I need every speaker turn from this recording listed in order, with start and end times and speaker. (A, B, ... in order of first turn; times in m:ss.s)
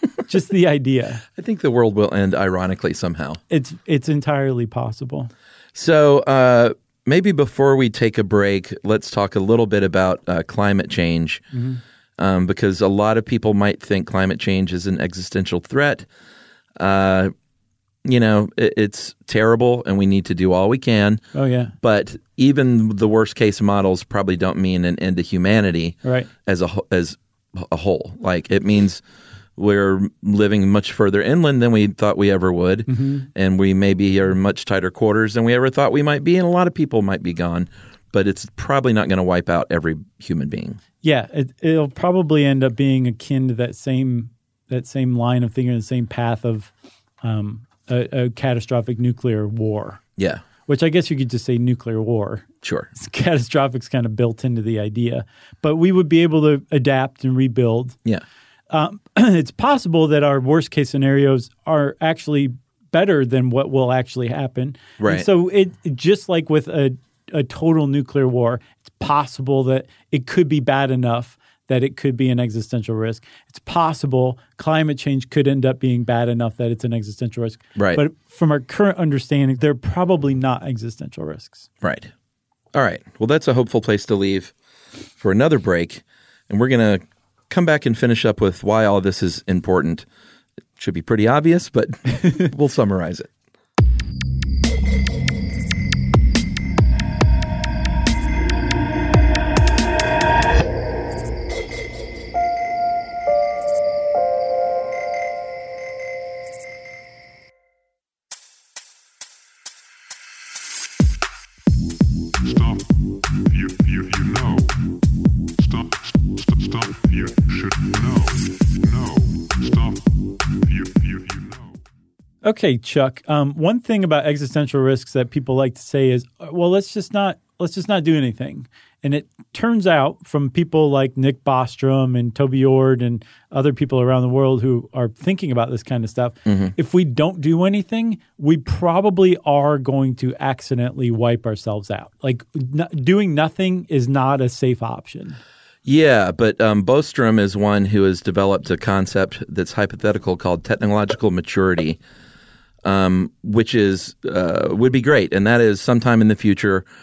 0:00.3-0:01.2 A
0:01.4-0:03.4 B
0:03.5-0:05.3 A
0:05.8-0:11.4 B
0:11.5-0:11.8 A
0:12.2-0:16.1 B
0:16.8-0:17.3 B
0:18.0-0:21.2 B
0:21.3-0:21.7 A
0:21.8-0:29.0 B
0:26.0-0:26.3 A
0:29.6-0:40.8 B
0:32.9-0:33.3 A
0:41.0-0:50.0 A
0:50.2-0:50.4 B
0:50.6-0:58.0 A
0:52.6-0:52.9 B
0:58.7-1:21.7 A
1:05.0-1:05.3 B
1:17.8-1:18.0 B
1:21.8-1:22.1 B
1:22.7-1:24.5 B
1:25.2-1:30.1 B
1:30.8-1:33.3 B
1:52.4-1:55.0 C
1:55.6-2:01.8 C
2:02.4-2:25.4 A
2:16.5-2:16.7 B
2:25.8-2:32.0 B
2:32.8-2:36.8 B